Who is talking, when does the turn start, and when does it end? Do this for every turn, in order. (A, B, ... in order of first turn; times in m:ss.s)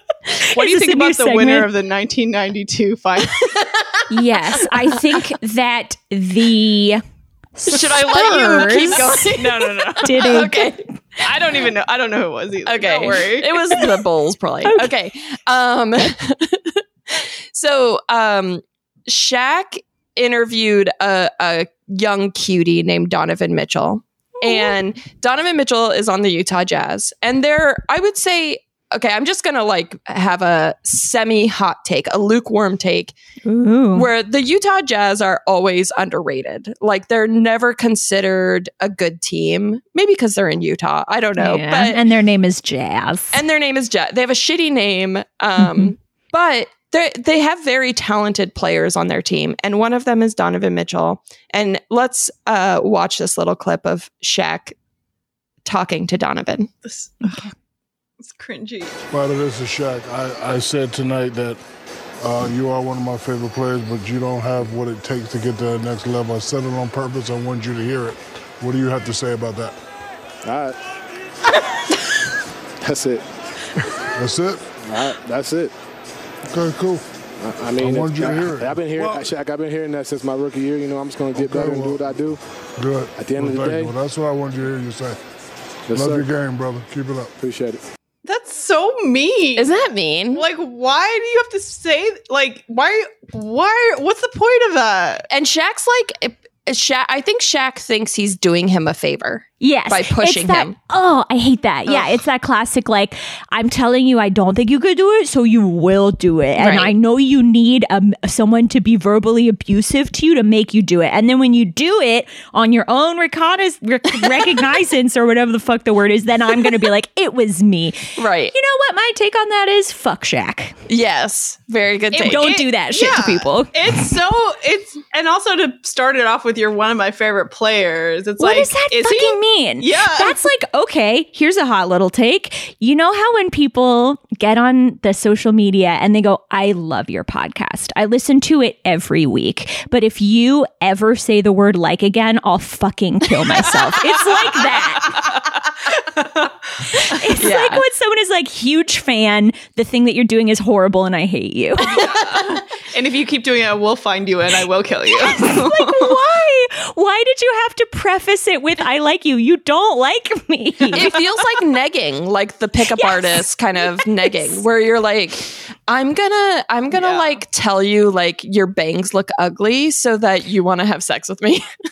0:00.3-0:01.7 A
0:00.5-0:03.6 B
0:04.1-0:07.0 A
0:07.6-0:09.2 A
0:07.7-0:10.8 C
0:08.3-0:10.0 B
0:10.0-0:10.7 A
0:11.2-0:13.8 B
0:12.6-0:33.1 C
0:14.6-0:14.9 A
0:24.4-0:24.7 A
0:33.4-0:34.1 A
0:33.9-0:42.0 C
0:41.4-0:43.4 A
0:43.3-0:54.8 C
0:45.6-0:45.9 A
0:55.6-0:56.7 C
0:56.8-0:57.5 B
0:57.2-0:57.5 A
0:58.2-0:59.0 B
0:59.1-1:01.6 D
1:02.2-1:09.7 D
1:10.4-1:10.8 E
1:12.8-1:13.2 E
1:14.1-1:14.7 D
1:14.8-1:15.7 E
1:16.5-1:17.0 D
1:17.4-1:22.4 E
1:17.8-1:19.3 D
1:21.3-1:22.2 D
1:22.8-1:25.2 D
1:23.2-1:23.9 E
1:25.9-1:26.3 E
1:25.9-1:27.3 D
1:27.4-1:27.8 E
1:28.2-1:29.7 B
1:29.6-1:30.4 C
1:30.3-1:35.3 B
1:35.3-1:40.7 C
1:39.6-2:00.7 A
1:46.6-1:46.9 C
1:58.2-1:58.5 C
2:00.9-2:02.5 C
2:02.1-2:10.4 B
2:02.2-2:04.1 A
2:08.4-2:25.2 A
2:25.0-2:26.5 B
2:26.9-2:32.0 A
2:27.3-2:27.8 C
2:31.9-2:36.2 B
2:35.2-2:41.1 A
2:40.9-2:41.2 B
2:40.9-2:51.7 C
2:42.9-2:44.3 A
2:46.9-2:47.4 B